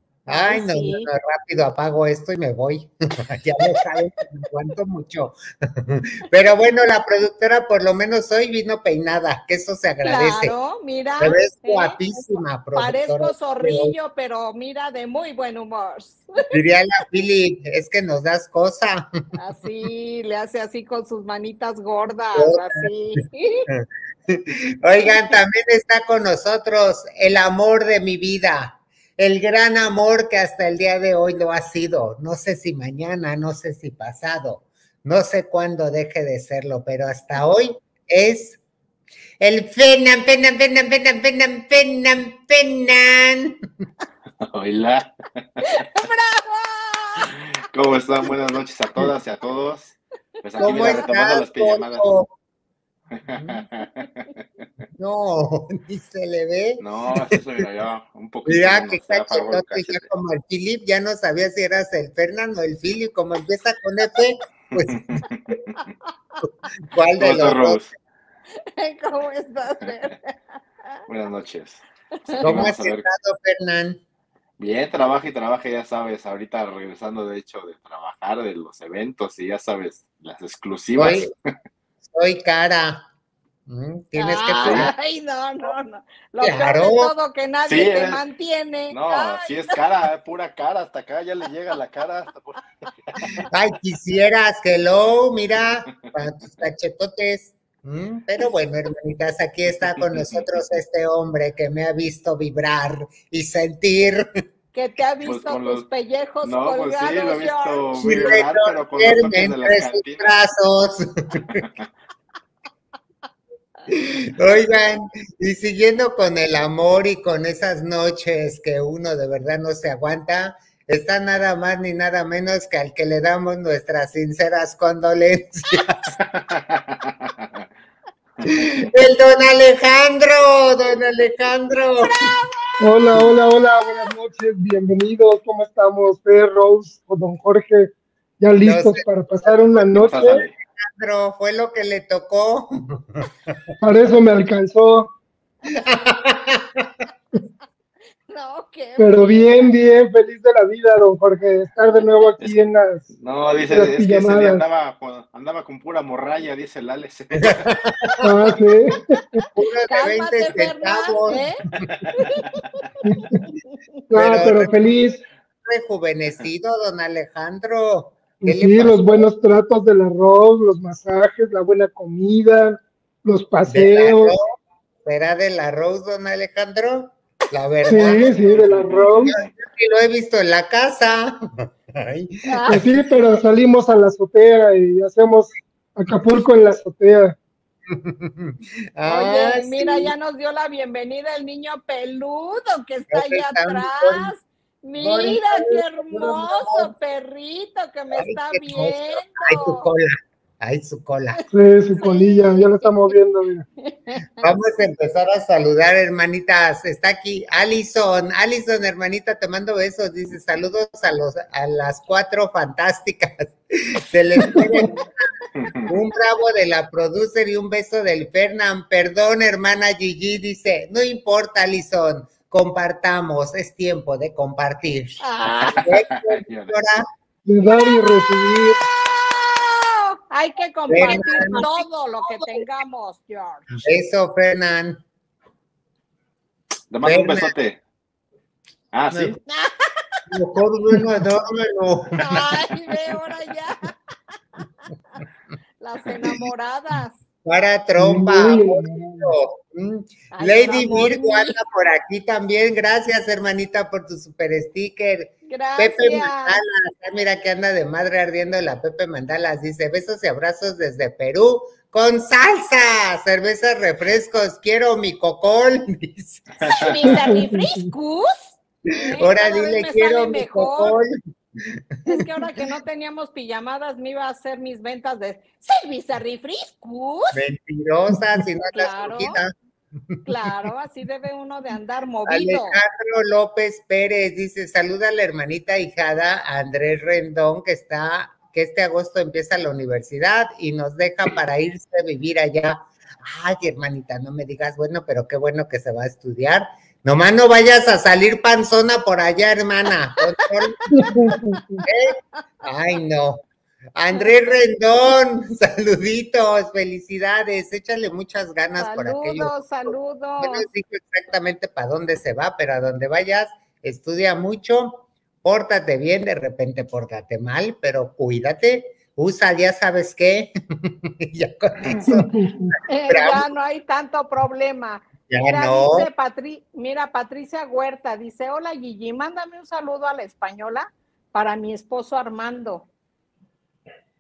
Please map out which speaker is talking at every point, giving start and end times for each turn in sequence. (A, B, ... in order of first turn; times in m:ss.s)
0:00.3-0:10.6 A
0:00.3-0:01.1 B
0:10.0-0:16.3 B
0:11.2-0:14.0 A
0:16.5-0:19.1 A
0:19.4-0:23.7 B
0:22.4-0:22.8 A
0:23.7-0:38.6 A
0:25.1-0:25.3 B
0:39.4-0:43.6 A
0:44.4-0:45.2 C
0:45.6-0:47.4 B
0:47.3-0:52.1 C
0:50.6-0:50.9 B
0:50.6-0:52.3 A
0:53.1-0:54.3 C
0:53.4-0:53.6 A
0:55.0-0:57.4 A
0:56.8-1:00.1 C
0:58.4-1:05.2 A
1:04.7-1:05.8 C
1:06.9-1:07.8 A
1:07.2-1:07.9 C
1:08.6-1:10.3 B
1:11.1-1:13.1 C
1:12.3-1:12.6 B
1:12.4-1:14.0 A
1:14.6-1:21.3 C
1:21.0-1:21.3 A
1:22.1-1:23.1 A
1:23.7-1:24.9 A
1:24.2-1:29.8 B
1:24.6-1:24.9 C
1:26.4-1:27.1 A
1:27.6-1:28.2 C
1:28.9-1:33.5 C
1:33.1-1:33.4 B
1:33.5-1:44.3 A
1:39.8-1:40.5 C
1:44.7-1:47.9 B
1:45.2-1:45.8 C
1:46.4-1:50.3 C
1:48.0-1:51.6 A
1:51.5-1:51.9 C
1:53.9-2:06.2 A
2:06.2-2:07.6 C
2:08.4-2:08.7 C
2:08.4-2:12.4 A
2:12.8-2:20.4 D
2:18.6-2:19.1 A
2:20.0-2:20.5 C
2:20.8-2:23.7 A
2:23.8-2:25.1 D
2:25.7-2:26.9 A
2:28.3-2:29.7 B
2:29.0-2:33.1 D
2:33.1-2:37.7 C
2:33.7-2:34.6 D
2:37.4-2:38.3 A
2:38.2-2:39.4 D
2:39.6-2:41.4 A
2:39.9-2:41.6 B
2:41.8-2:42.9 C
2:42.2-2:42.8 B
2:43.0-2:43.4 D
2:44.1-2:44.9 A
2:44.1-2:45.2 D
2:45.6-2:49.3 A
2:48.4-2:54.4 D
2:53.7-2:54.4 A
2:55.0-3:03.0 A
2:57.9-2:59.3 D
2:58.6-2:59.0 C
3:02.5-3:02.9 B
3:02.7-3:07.4 D
3:07.9-3:10.1 A
3:09.1-3:19.9 B
3:13.1-3:14.3 A
3:15.0-3:16.9 A
3:18.1-3:21.4 A
3:21.5-3:23.7 D
3:22.0-3:23.1 B
3:23.8-3:24.4 B
3:24.4-3:35.1 A
3:35.6-3:35.9 C
3:35.8-3:45.2 A
3:45.2-3:45.9 B
3:45.7-3:47.0 A
3:45.8-3:46.8 C
3:47.5-3:48.8 D
3:47.7-3:48.0 B
3:49.3-3:53.7 B
3:50.9-3:52.6 A
3:53.8-3:55.0 A
3:56.9-3:57.8 C
3:57.0-3:57.5 A
3:58.9-3:59.4 C
3:59.5-3:59.9 B
4:00.3-4:02.6 A
4:02.2-4:03.9 B
4:05.8-4:07.2 B
4:07.4-4:26.6 A
4:08.0-4:09.3 D
4:10.3-4:11.6 B
4:15.5-4:16.6 B
4:26.6-4:26.9 C
4:26.7-4:31.0 B
4:27.1-4:27.4 D
4:29.2-4:31.1 A
4:31.6-4:32.5 A
4:32.1-4:37.4 B
4:37.3-4:39.5 A
4:38.7-4:39.4 B
4:40.2-4:42.8 B
4:42.3-5:01.2 A
5:00.9-5:01.8 D
5:01.0-5:01.9 B
5:01.9-5:03.4 A
5:04.0-5:22.3 A
5:08.8-5:10.7 B
5:22.0-5:22.8 D
5:22.8-5:32.9 B
5:23.1-5:23.5 A
5:25.3-5:26.1 A